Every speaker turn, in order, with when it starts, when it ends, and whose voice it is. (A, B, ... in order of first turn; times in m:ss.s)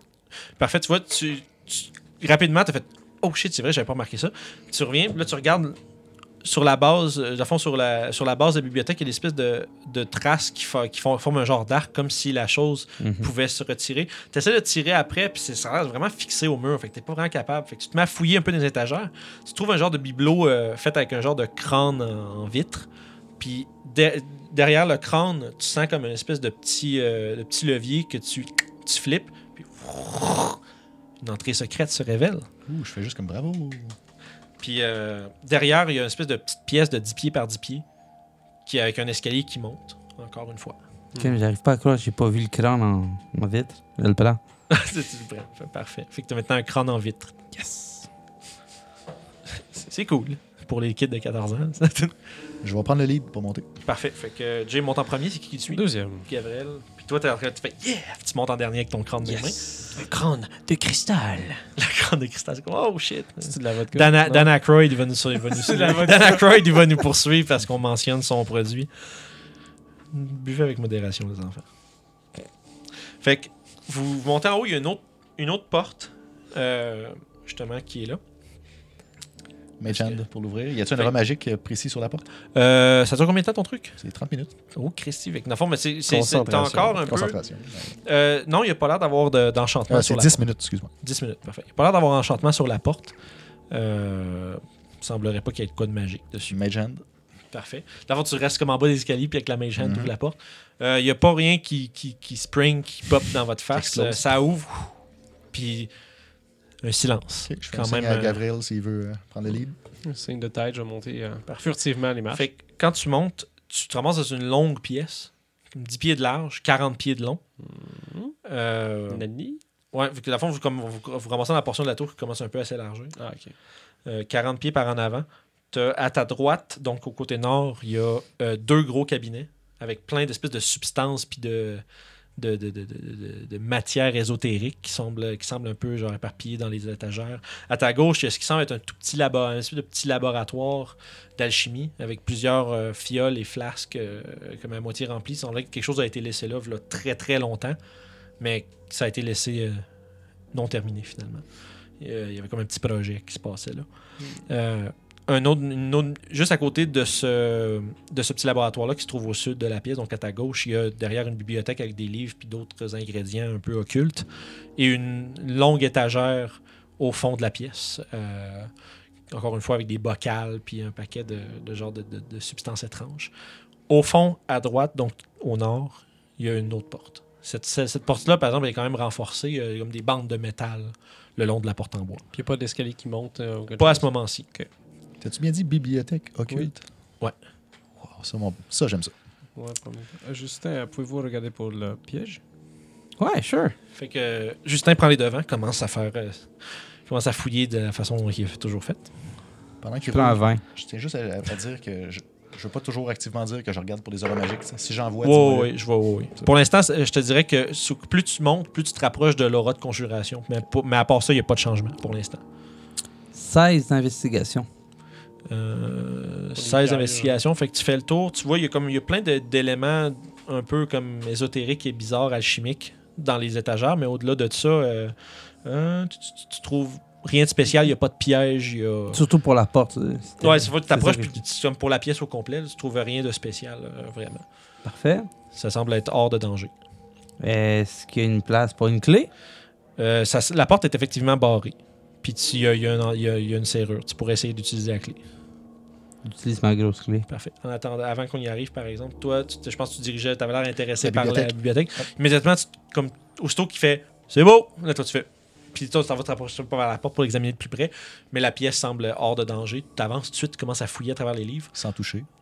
0:00.6-0:05.8 A
0:06.4-0:22.9 A
0:13.0-0:13.3 B
0:23.4-0:30.6 A
0:31.2-0:32.5 A
0:32.7-0:33.9 C
0:34.6-0:37.8 A
0:38.6-0:40.8 A
0:41.2-0:44.4 B
0:44.7-0:47.3 A
0:47.6-0:48.0 D
0:49.7-0:52.1 A
0:52.6-0:53.7 C
0:53.8-0:59.6 A
0:55.7-0:56.3 D
0:59.2-1:01.6 D
1:01.8-1:08.9 A
1:03.4-1:04.5 D
1:05.4-1:06.9 D
1:10.1-1:11.6 A
1:13.2-1:18.2 A
1:19.8-1:22.2 C
1:19.9-1:20.2 A
1:22.5-1:24.0 A
1:24.0-1:24.5 C
1:24.7-1:27.4 A
1:26.1-1:27.0 D
1:26.9-1:28.0 C
1:28.0-1:30.4 A
1:29.9-1:30.9 C
1:31.0-1:33.1 A
1:33.7-1:36.6 A
1:36.5-1:37.0 C
1:37.5-1:44.9 A
1:39.8-1:40.1 C
1:43.7-1:44.3 C
1:45.5-1:45.9 A
1:46.8-1:48.4 A
1:47.5-1:49.8 C
1:50.0-1:52.5 D
1:52.3-1:57.4 A
1:57.6-1:58.4 D
1:58.4-1:59.2 A
1:59.1-1:59.6 D
1:59.9-2:03.2 A
2:03.2-2:03.5 D
2:04.0-2:11.8 A
2:12.4-2:27.8 A
2:28.4-2:29.8 A
2:30.5-2:31.4 A
2:32.0-2:33.8 A
2:34.5-2:44.2 A
2:44.8-2:48.7 A
2:49.3-2:53.3 A
2:53.9-3:02.2 A
3:02.3-3:04.7 D
3:03.8-3:04.4 A
3:05.2-3:06.8 C
3:08.1-3:09.1 C
3:09.6-3:12.4 D
3:13.2-3:13.7 B
3:13.9-3:16.5 A
3:17.0-3:19.1 A
3:19.8-3:25.7 C
3:20.1-3:20.6 B
3:25.2-3:32.4 A
3:33.3-3:34.7 B
3:35.5-3:45.1 A
3:36.6-3:37.4 D
3:45.6-3:49.2 A
3:49.1-3:51.4 B
3:50.4-3:54.4 A
3:54.8-3:55.3 B
3:55.5-3:56.7 A
3:57.4-3:59.3 B
4:00.0-4:05.2 A
4:06.2-4:07.2 B
4:07.3-4:21.7 A
4:11.0-4:12.0 C
4:21.7-4:22.3 C